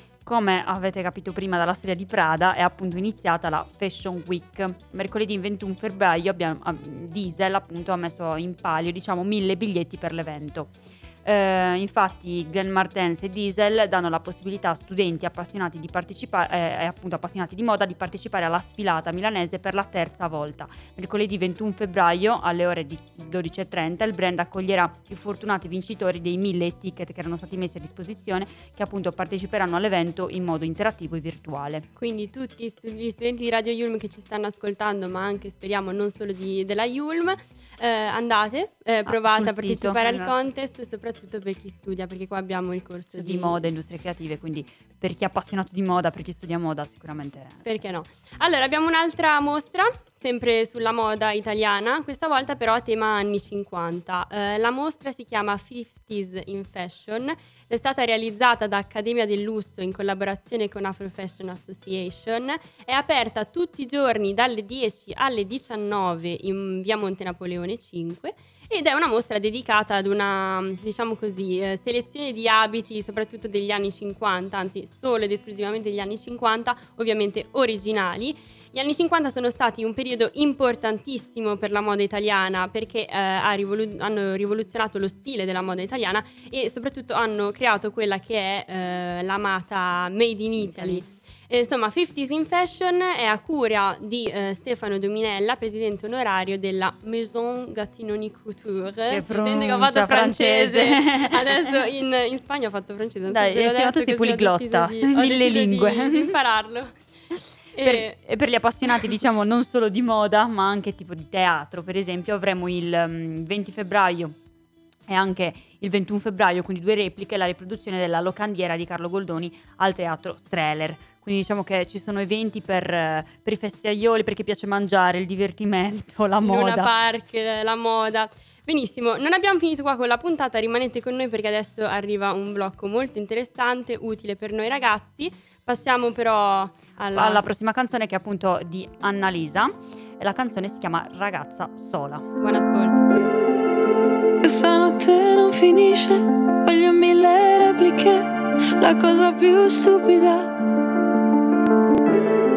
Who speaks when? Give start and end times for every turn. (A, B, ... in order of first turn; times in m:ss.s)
0:00.2-0:10.7 A
0:11.2-0:31.9 A
0:32.0-0:43.6 B
0:39.0-0:40.3 A
0:43.1-0:47.6 A
0:47.6-1:47.0 B
1:30.6-1:31.0 A
1:39.1-1:41.8 A
1:43.3-1:46.3 A
1:47.7-1:48.2 B
1:47.8-1:54.3 A
1:55.1-2:06.9 A
2:06.4-2:17.4 B
2:17.1-2:22.3 A
2:22.4-2:23.0 B
2:24.4-2:30.5 C